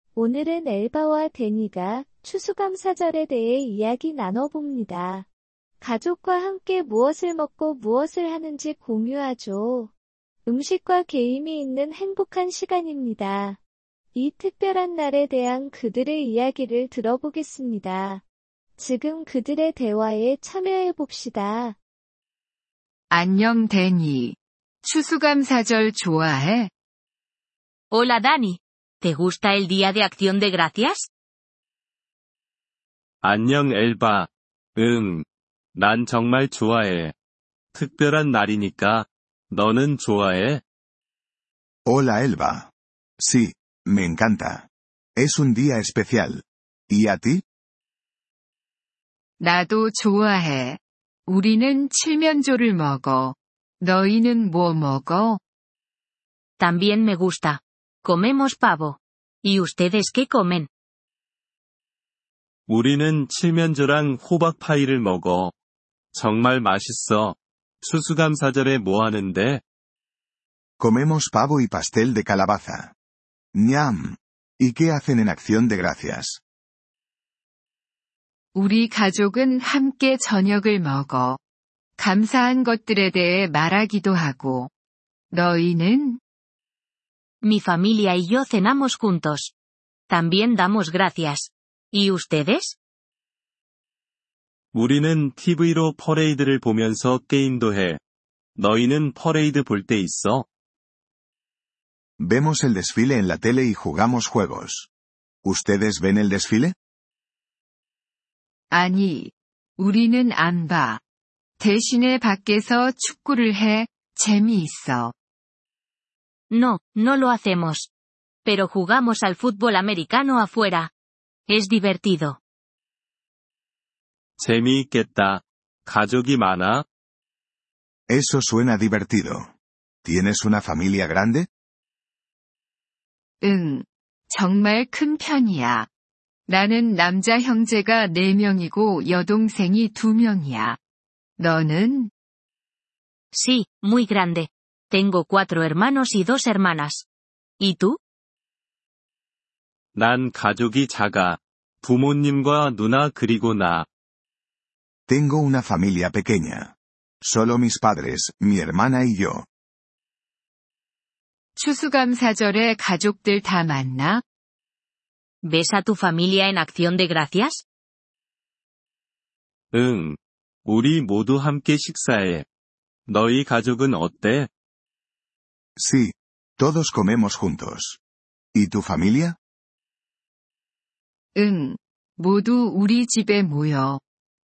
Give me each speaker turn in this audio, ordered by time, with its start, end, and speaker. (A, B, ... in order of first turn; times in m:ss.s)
0:00.2-0:05.3 A
0:05.8-0:09.9 A
0:10.5-0:13.6 A
0:14.2-0:18.2 A
0:18.8-0:21.8 A
0:23.1-0:26.7 B
0:27.9-0:31.1 C
0:33.2-0:37.1 D
0:37.7-0:40.6 D
0:41.9-0:47.4 E
0:49.4-0:55.4 B
0:56.6-1:00.7 C
1:02.7-1:05.5 D
1:06.1-1:09.6 D
1:10.8-1:12.9 E
1:13.5-1:16.4 E
1:18.6-1:21.4 B
1:22.0-1:24.7 B
1:25.3-1:26.2 B
1:27.4-1:29.5 C
1:30.1-1:32.8 C
1:34.7-1:38.0 D
1:38.6-1:40.5 D
1:42.2-1:44.9 E
1:45.4-1:46.8 E
1:48.7-1:51.0 B
1:51.6-1:55.1 B
1:56.5-1:57.9 C
1:58.4-2:00.9 C
2:01.5-2:02.4 C
2:04.4-2:06.9 D
2:08.1-2:09.5 E
2:10.0-2:11.5 E
2:13.4-2:15.9 B
2:16.5-2:20.8 B
2:21.4-2:22.1 B
2:23.3-2:27.0 C
2:27.6-2:28.0 C
2:30.0-2:33.9 D
2:35.1-2:39.5 E
2:41.6-2:44.2 B
2:45.4-2:47.6 C
2:49.7-2:52.5 D
2:53.1-2:54.5 D
2:55.8-2:58.0 E
2:58.5-2:59.4 E
3:01.4-3:04.0 B